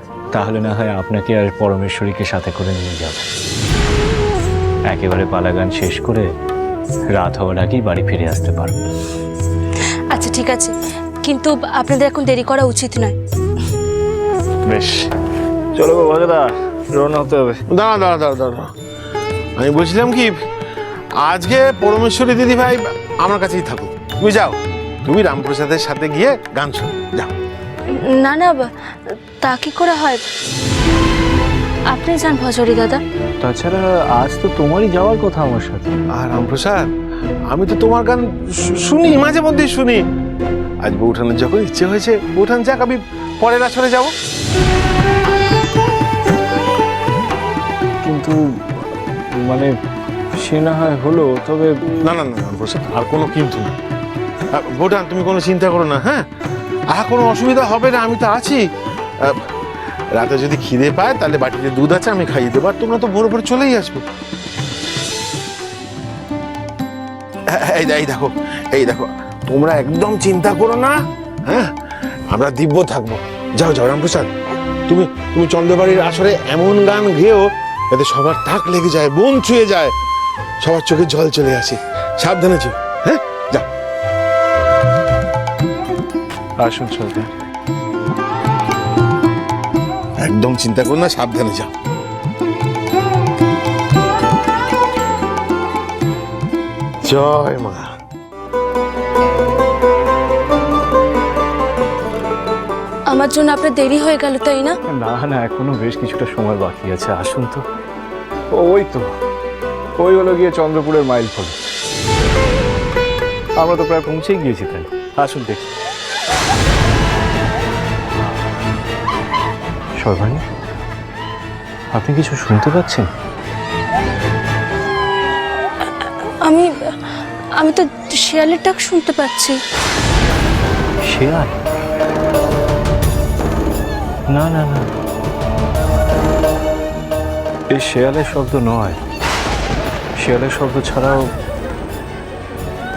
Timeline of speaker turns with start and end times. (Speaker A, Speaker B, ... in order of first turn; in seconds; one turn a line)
Speaker A: 0.3-3.2
Speaker A: 4.9-6.2
Speaker A: 7.1-8.8
Speaker B: 10.1-13.2
Speaker A: 14.7-15.0
Speaker A: 15.7-17.6
Speaker C: 17.7-18.7
Speaker C: 19.6-20.3
Speaker C: 21.2-27.3
Speaker B: 28.1-28.7
Speaker B: 29.4-30.2
Speaker B: 31.9-33.0
Speaker A: 33.4-36.0
Speaker C: 36.1-36.9
Speaker C: 37.5-40.0
Speaker C: 40.8-44.1
Speaker A: 48.0-48.9
Speaker A: 49.4-49.7
Speaker A: 50.4-51.9
Speaker C: 52.1-53.7
Speaker C: 54.5-56.2
Speaker C: 56.9-58.6
Speaker C: 60.1-64.0
Speaker C: 67.5-71.7
Speaker C: 72.3-74.3
Speaker C: 74.9-79.9
Speaker C: 80.6-83.7
Speaker A: 86.6-87.3
Speaker C: 90.2-91.7
Speaker C: 97.0-97.9
Speaker B: 103.1-104.7
Speaker A: 104.9-107.6
Speaker A: 108.5-109.1
Speaker A: 110.0-111.5
Speaker A: 113.6-115.7
Speaker A: 120.0-120.4
Speaker A: 121.9-123.1
Speaker B: 127.6-129.6
Speaker A: 131.1-131.6
Speaker A: 134.3-134.9
Speaker A: 137.7-139.0
Speaker A: 140.2-141.2